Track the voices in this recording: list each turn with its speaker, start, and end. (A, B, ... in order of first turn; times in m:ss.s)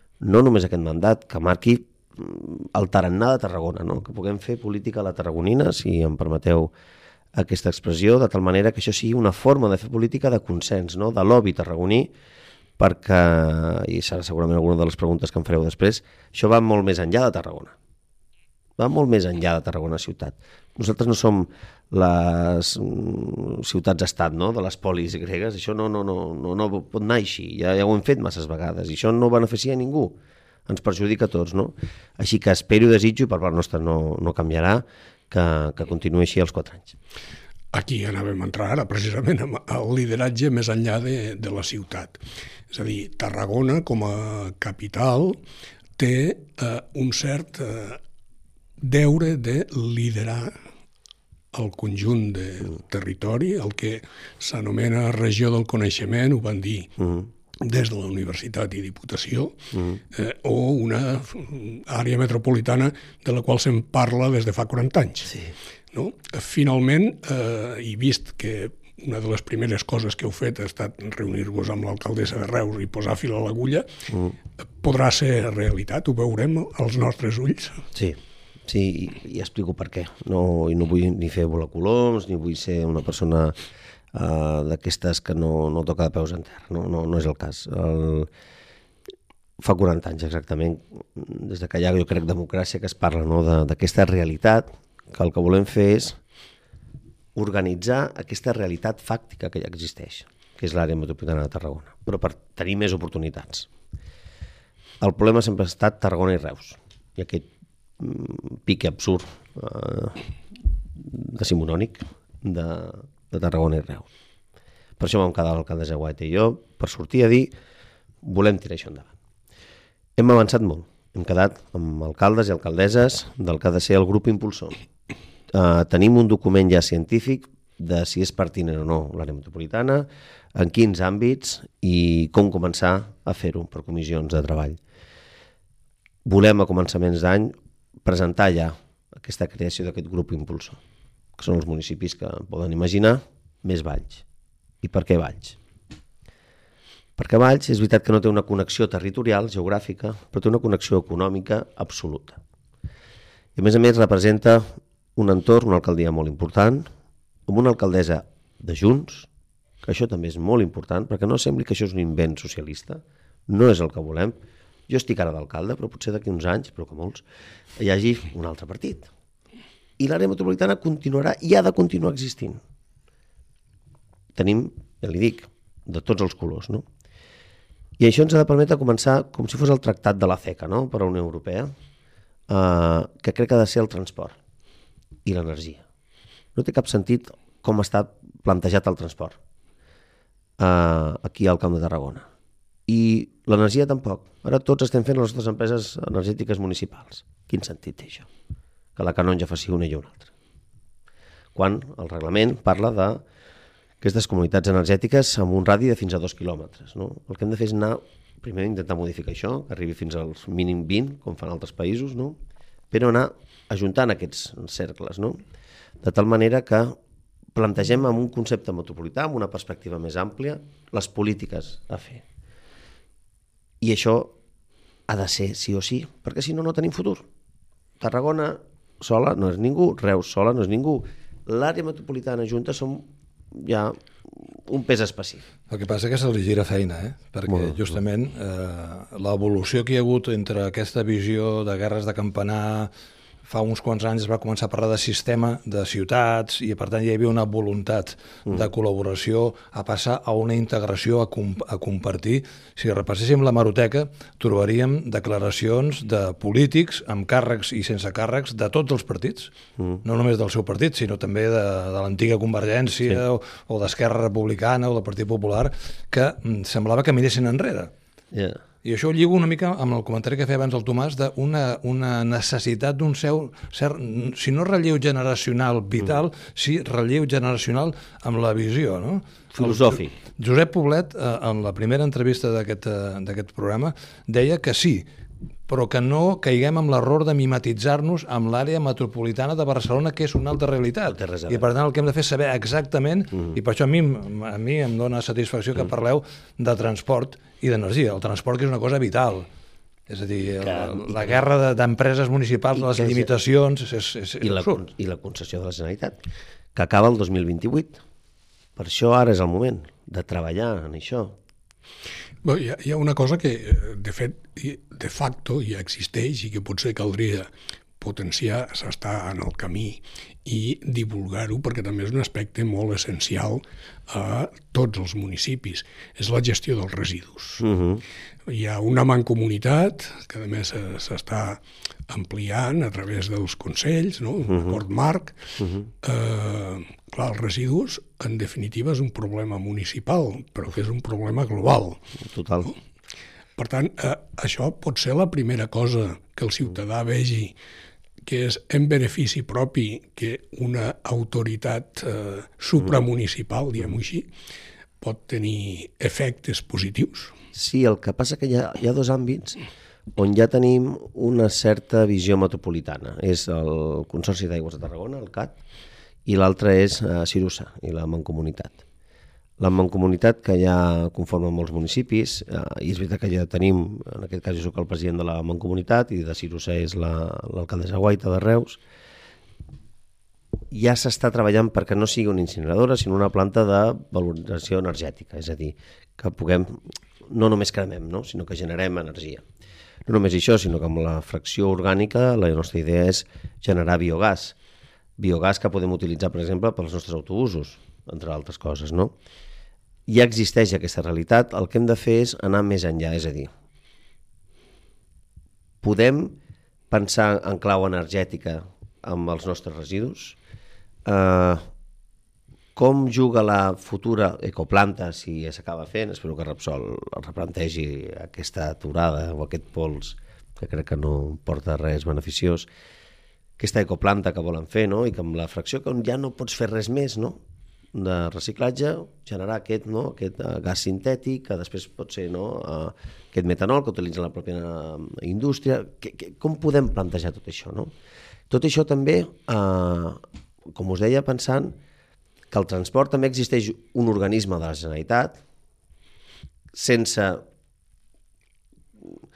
0:00.2-0:06.7 A
0:07.4-0:12.1 A
0:12.8-0:17.7 A
0:18.8-0:30.2 A
0:30.7-0:37.0 A
0:37.7-0:45.4 B
0:46.0-0:48.0 B
0:48.8-0:50.5 B
0:51.5-0:56.9 B
0:57.0-0:57.3 A
0:57.6-0:59.6 B
0:59.7-1:00.0 A
1:00.1-1:05.4 B
1:05.3-1:05.5 A
1:05.9-1:13.9 B
1:14.1-1:14.4 A
1:14.8-1:17.8 B
1:17.9-1:23.6 A
1:24.1-1:28.3 A
1:29.6-1:36.2 A
1:37.4-1:43.7 A
1:45.0-1:47.5 A
1:48.0-1:50.3 A
1:51.0-1:54.1 A
1:55.0-1:57.5 A
1:58.2-1:59.1 A
2:00.2-2:04.8 A
2:05.5-2:14.8 A
2:16.3-2:20.8 A
2:21.4-2:24.2 A
2:24.8-2:25.6 A
2:27.2-2:32.4 A
2:33.6-2:36.9 A
2:37.5-2:39.3 A
2:39.8-2:44.4 A
2:44.9-2:47.2 A
2:47.8-2:49.1 A
2:50.0-2:52.6 A
2:54.4-2:56.9 A
2:58.0-3:01.7 A
3:02.5-3:04.4 A
3:05.2-3:05.8 A
3:06.6-3:09.4 A
3:10.6-3:12.3 A
3:12.9-3:18.3 A
3:19.0-3:20.3 A
3:21.6-3:23.2 A
3:24.0-3:32.4 A
3:32.9-3:35.4 A
3:36.0-3:37.0 A
3:37.6-3:42.2 A
3:43.8-3:44.4 A
3:45.1-3:47.2 A
3:48.0-3:55.4 A
3:55.7-4:02.9 C
3:57.5-3:58.0 A
4:03.4-4:19.5 C
4:19.8-4:20.0 A
4:20.0-4:27.9 C
4:28.3-4:28.6 A
4:28.8-4:45.1 C
4:39.5-4:40.1 A
4:45.7-4:59.5 C
4:51.1-4:51.7 A
5:00.1-5:04.8 C
5:00.6-5:01.3 A
5:02.7-5:03.3 A
5:04.4-5:06.2 A
5:06.7-5:08.0 A
5:08.8-5:11.4 A
5:12.4-5:17.5 B
5:18.0-5:27.6 B
5:27.6-5:28.0 A
5:28.5-5:35.4 B
5:34.4-5:34.8 A
5:35.6-5:35.9 A
5:36.0-5:42.0 B
5:42.2-5:42.7 A
5:43.6-5:47.6 B
5:48.2-5:54.3 B
5:55.0-5:57.4 B
5:57.5-5:59.6 A
6:00.1-6:05.6 A
6:06.3-6:08.8 A
6:09.6-6:18.8 A
6:20.7-6:29.4 A
6:30.1-6:34.6 A
6:35.2-6:39.1 A
6:40.1-6:43.5 A
6:45.8-6:46.4 A
6:46.9-6:50.4 A
6:51.1-6:51.6 A
6:52.8-7:02.7 A
7:03.6-7:07.4 A
7:07.9-7:17.9 A
7:18.5-7:20.2 A
7:20.7-7:21.8 A
7:22.5-7:25.4 A
7:26.7-7:27.4 A